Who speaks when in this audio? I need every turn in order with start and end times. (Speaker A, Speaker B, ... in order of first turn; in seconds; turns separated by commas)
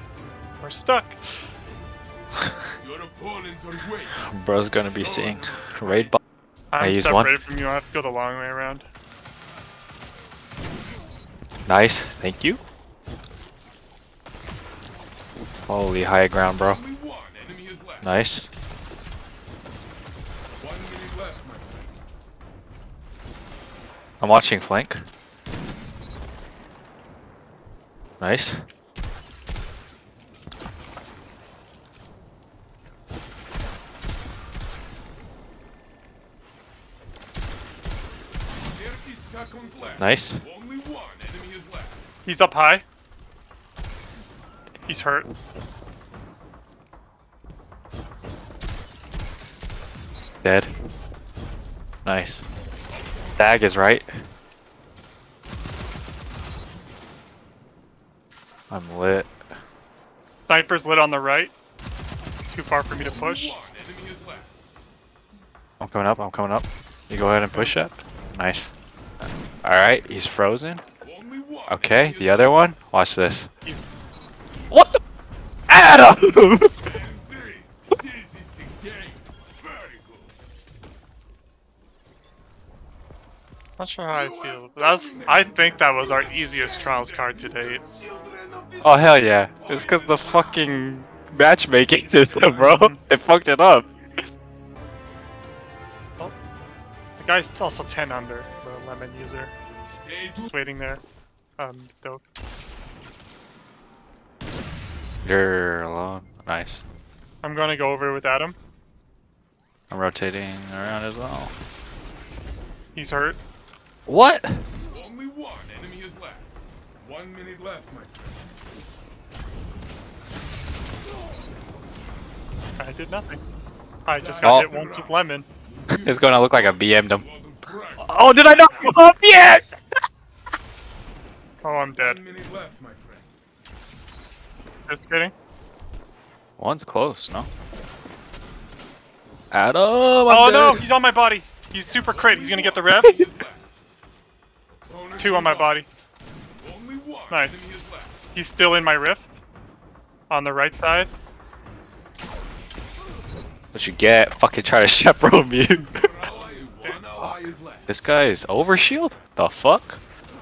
Speaker A: 0.6-1.4, Speaker B: 2.8-4.2, Speaker C: 4.2-6.2, Speaker B: 5.0-6.1, Speaker A: 6.7-8.8, Speaker C: 6.8-7.3, Speaker C: 11.7-12.6, Speaker C: 15.6-16.8, Speaker B: 16.5-18.1, Speaker C: 18.0-18.5, Speaker B: 20.6-21.9, Speaker C: 24.2-25.0, Speaker C: 28.2-28.6, Speaker B: 38.7-42.0, Speaker C: 40.0-40.4, Speaker A: 42.2-42.8, Speaker A: 44.9-45.3, Speaker C: 50.4-50.7, Speaker C: 52.0-52.4, Speaker B: 53.0-53.4, Speaker C: 53.4-54.1, Speaker C: 58.7-59.3, Speaker A: 60.5-61.5, Speaker A: 62.5-63.6, Speaker B: 62.9-64.5, Speaker C: 65.8-68.7, Speaker C: 69.6-70.8, Speaker B: 71.0-72.6, Speaker C: 71.7-73.5, Speaker A: 73.6-73.9, Speaker C: 74.7-75.0, Speaker C: 75.7-76.9, Speaker B: 76.8-80.3, Speaker A: 83.8-87.8, Speaker B: 84.1-90.9, Speaker C: 88.8-93.9, Speaker A: 92.4-93.0, Speaker A: 97.2-99.5, Speaker B: 99.9-100.5, Speaker A: 100.5-101.0, Speaker A: 101.6-102.2, Speaker C: 105.2-106.8, Speaker A: 107.4-108.5, Speaker C: 109.9-111.5, Speaker A: 112.9-113.4, Speaker C: 114.1-114.6, Speaker B: 114.8-118.5, Speaker A: 122.8-123.4, Speaker A: 124.0-125.5, Speaker B: 124.2-129.0, Speaker C: 124.4-124.7, Speaker C: 125.9-127.2, Speaker C: 128.0-129.8, Speaker A: 131.6-132.2, Speaker B: 132.0-133.3, Speaker A: 134.9-135.3, Speaker C: 136.6-137.5, Speaker C: 139.5-140.8, Speaker A: 140.3-143.2, Speaker B: 141.9-143.7, Speaker B: 144.9-145.8, Speaker A: 145.2-145.9, Speaker B: 146.6-148.2, Speaker A: 147.3-147.7, Speaker A: 148.3-149.3, Speaker A: 150.3-151.1, Speaker C: 153.7-156.1, Speaker B: 155.9-157.9, Speaker C: 157.9-160.0